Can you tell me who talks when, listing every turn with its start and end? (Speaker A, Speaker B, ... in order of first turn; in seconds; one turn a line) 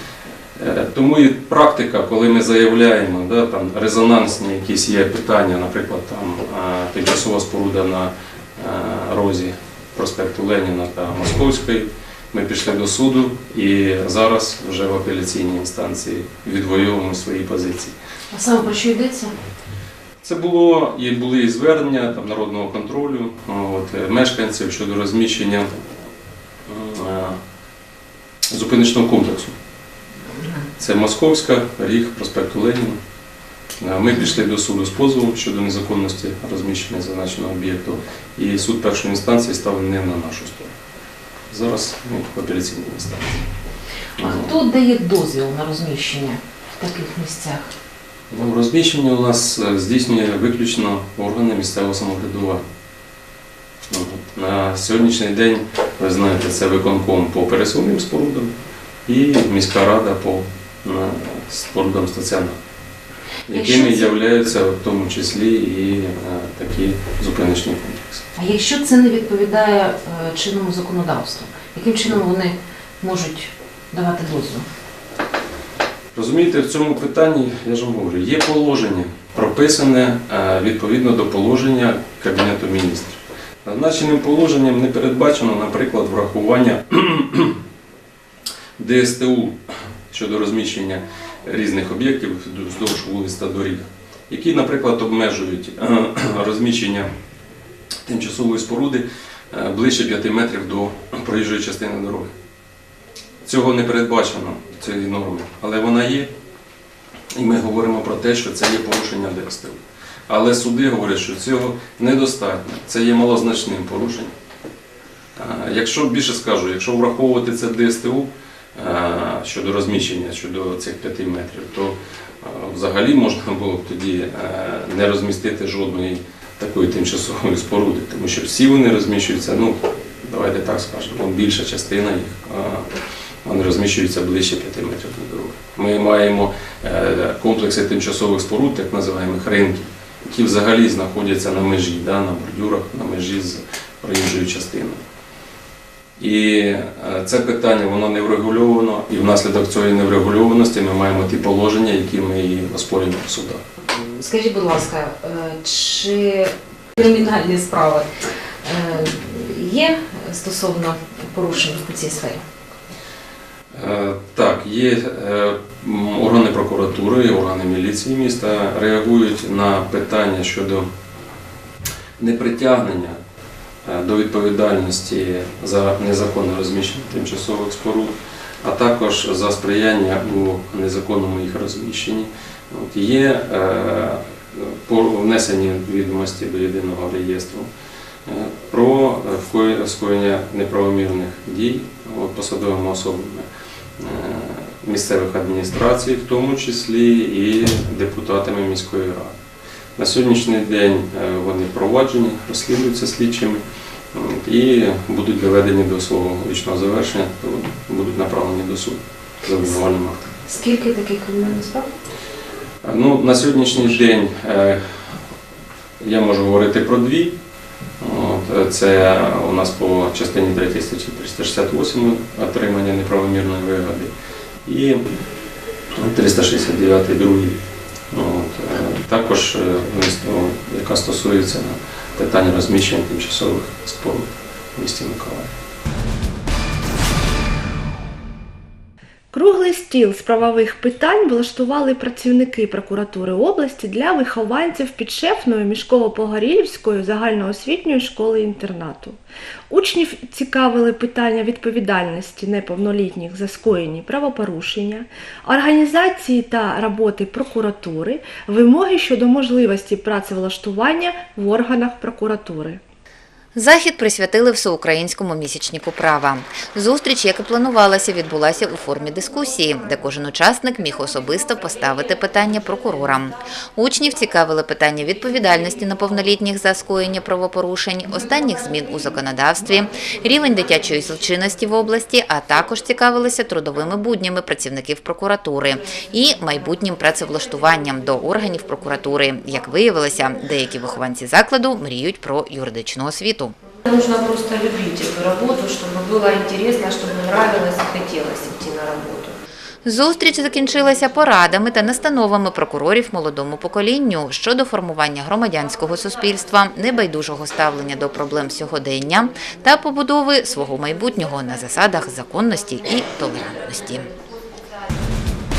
Speaker A: 0.6-17.9
Speaker B: 18.3-19.4
Speaker A: 20.2-25.9
Speaker A: 26.7-27.4
Speaker A: 28.5-29.5
Speaker A: 30.8-33.0
Speaker A: 33.8-40.7
Speaker A: 41.5-43.4
Speaker A: 44.2-44.6
Speaker B: 44.2-47.7
Speaker A: 48.3-52.6
Speaker A: 53.9-58.5
Speaker A: 59.0-62.6
Speaker A: 63.5-68.2
Speaker B: 63.5-64.1
Speaker B: 68.4-74.7
Speaker A: 76.1-87.6
Speaker A: 88.8-89.5
Speaker A: 90.1-97.1
Speaker A: 98.0-102.3
Speaker A: 103.4-106.3
Speaker A: 107.3-114.3
Speaker A: 115.4-132.9
Speaker A: 133.4-145.0
Speaker A: 146.2-153.6
Speaker B: 153.9-158.1
Speaker B: 158.6-162.4
Speaker A: 163.8-170.9
Speaker A: 172.2-173.2
Speaker A: 173.8-187.7
Speaker A: 188.2-193.5
Speaker A: 194.0-199.3
Speaker A: 200.0-210.3
Speaker B: 210.5-211.9
Speaker A: 212.8-214.8
Speaker A: 216.0-217.3
Speaker A: 218.0-224.1
Speaker A: 224.7-225.0
Speaker A: 225.9-227.6
Speaker A: 228.1-235.5
Speaker C: 239.3-249.2
Speaker C: 249.7-262.8
Speaker D: 263.6-293.6
Speaker E: 293.9-299.3
Speaker D: 299.9-314.1